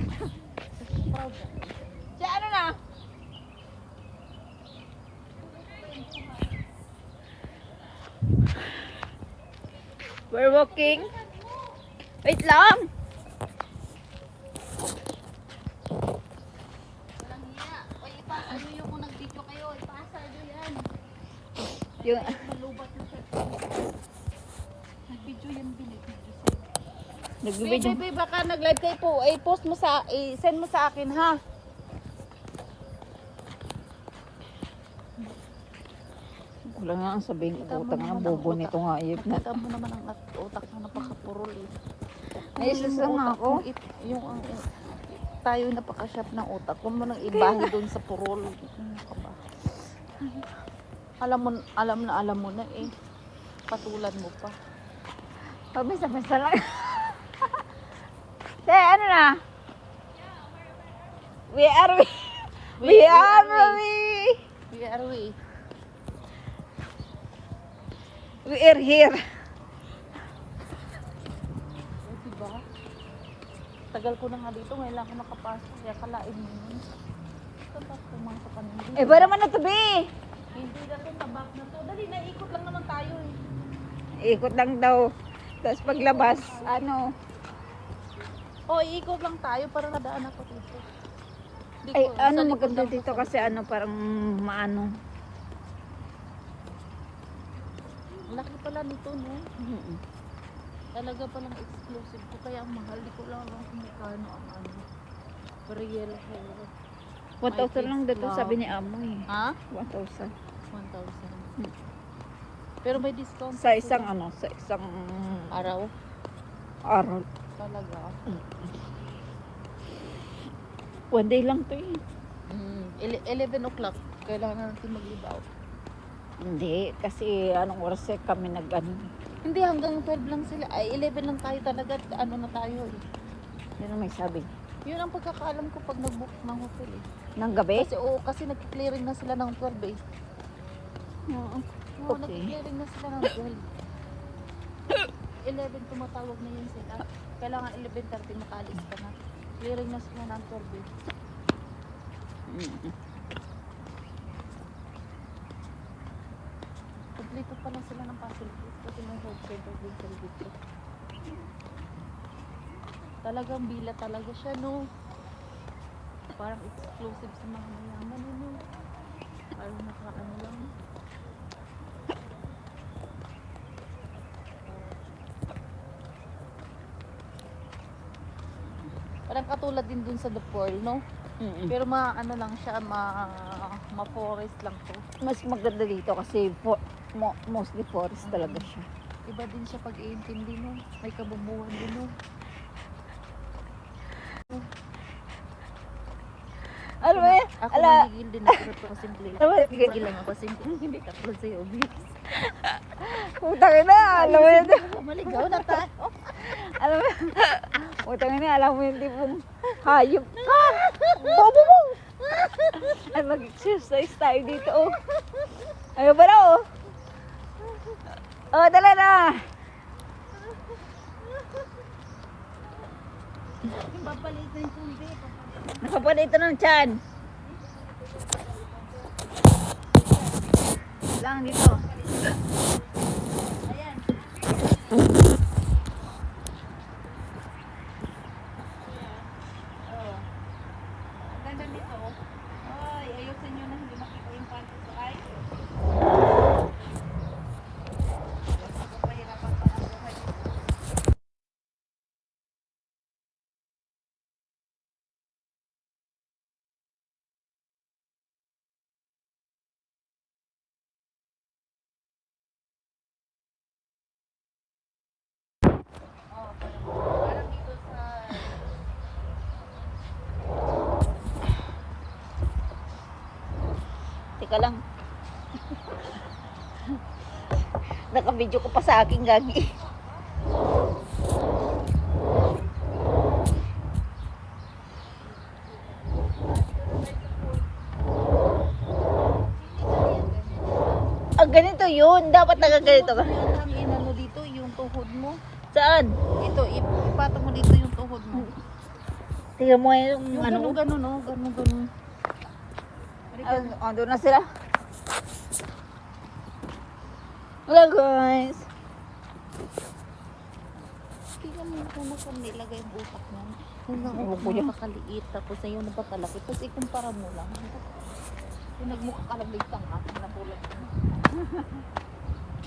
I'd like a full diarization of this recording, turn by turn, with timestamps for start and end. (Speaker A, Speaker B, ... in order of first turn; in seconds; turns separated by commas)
Speaker A: 0.8-2.1, Speaker B: 2.2-2.8, Speaker A: 5.5-6.5, Speaker B: 10.3-11.1, Speaker A: 10.6-11.8, Speaker B: 12.2-12.9, Speaker A: 17.2-20.8, Speaker A: 22.0-23.9, Speaker B: 22.0-22.4, Speaker A: 25.1-26.7, Speaker B: 27.4-28.0, Speaker A: 27.6-31.4, Speaker B: 36.7-39.4, Speaker A: 37.5-41.8, Speaker B: 42.5-43.6, Speaker A: 42.6-49.4, Speaker B: 47.3-47.7, Speaker A: 51.2-52.9, Speaker A: 53.7-54.5, Speaker B: 55.7-57.6, Speaker B: 58.7-59.4, Speaker B: 61.5-64.4, Speaker A: 62.8-63.8, Speaker A: 64.7-65.3, Speaker B: 68.5-69.2, Speaker A: 72.0-72.6, Speaker A: 73.9-76.8, Speaker A: 77.7-79.3, Speaker B: 79.0-80.1, Speaker A: 80.5-83.3, Speaker B: 84.2-85.1, Speaker B: 85.6-87.1, Speaker A: 85.8-86.8, Speaker A: 88.7-90.8, Speaker A: 91.8-93.6, Speaker B: 92.0-94.9, Speaker A: 98.3-99.5, Speaker B: 99.6-100.0, Speaker A: 101.0-104.8, Speaker A: 105.7-106.7, Speaker B: 107.4-110.3, Speaker A: 107.5-108.6, Speaker A: 109.3-109.6, Speaker A: 110.7-111.5, Speaker A: 112.8-114.1, Speaker B: 113.6-115.5, Speaker A: 115.5-115.9, Speaker B: 116.9-117.2, Speaker A: 117.6-118.1, Speaker B: 121.1-122.0, Speaker A: 122.5-125.5, Speaker B: 126.4-129.1, Speaker A: 129.4-133.0, Speaker B: 133.8-134.5, Speaker A: 134.9-137.0, Speaker B: 137.4-137.9, Speaker A: 137.7-140.0, Speaker B: 141.3-142.5, Speaker A: 142.0-143.6, Speaker A: 145.5-150.9, Speaker B: 152.5-152.9, Speaker A: 157.2-160.5, Speaker A: 163.2-164.8, Speaker A: 166.4-168.6, Speaker A: 169.6-170.7, Speaker A: 179.3-181.0, Speaker B: 181.4-181.7, Speaker A: 181.7-185.0, Speaker B: 185.2-188.9, Speaker A: 188.2-188.7, Speaker A: 189.3-192.1, Speaker B: 197.0-198.1, Speaker A: 197.0-202.5, Speaker B: 199.4-200.0, Speaker B: 202.8-205.8, Speaker A: 203.9-206.3, Speaker B: 206.4-211.9, Speaker A: 210.4-212.1, Speaker B: 212.7-215.0, Speaker B: 216.0-216.7, Speaker B: 218.5-219.5, Speaker A: 223.7-226.0, Speaker B: 225.8-227.0, Speaker A: 227.6-229.2, Speaker A: 229.9-230.4, Speaker B: 231.2-231.8, Speaker A: 231.4-232.7, Speaker A: 233.6-235.0, Speaker A: 239.9-240.3, Speaker A: 241.3-245.3, Speaker A: 248.6-250.5, Speaker A: 266.3-268.6, Speaker B: 274.4-274.8, Speaker B: 277.9-279.7, Speaker A: 286.3-287.7, Speaker A: 289.6-290.8, Speaker B: 291.4-293.4, Speaker A: 292.5-295.4, Speaker B: 295.7-296.2, Speaker A: 296.4-298.5, Speaker B: 299.6-300.8, Speaker A: 300.3-301.9, Speaker A: 303.4-303.8, Speaker B: 303.4-304.4, Speaker B: 307.7-308.7, Speaker A: 311.4-317.8, Speaker B: 314.0-314.7, Speaker A: 318.8-321.0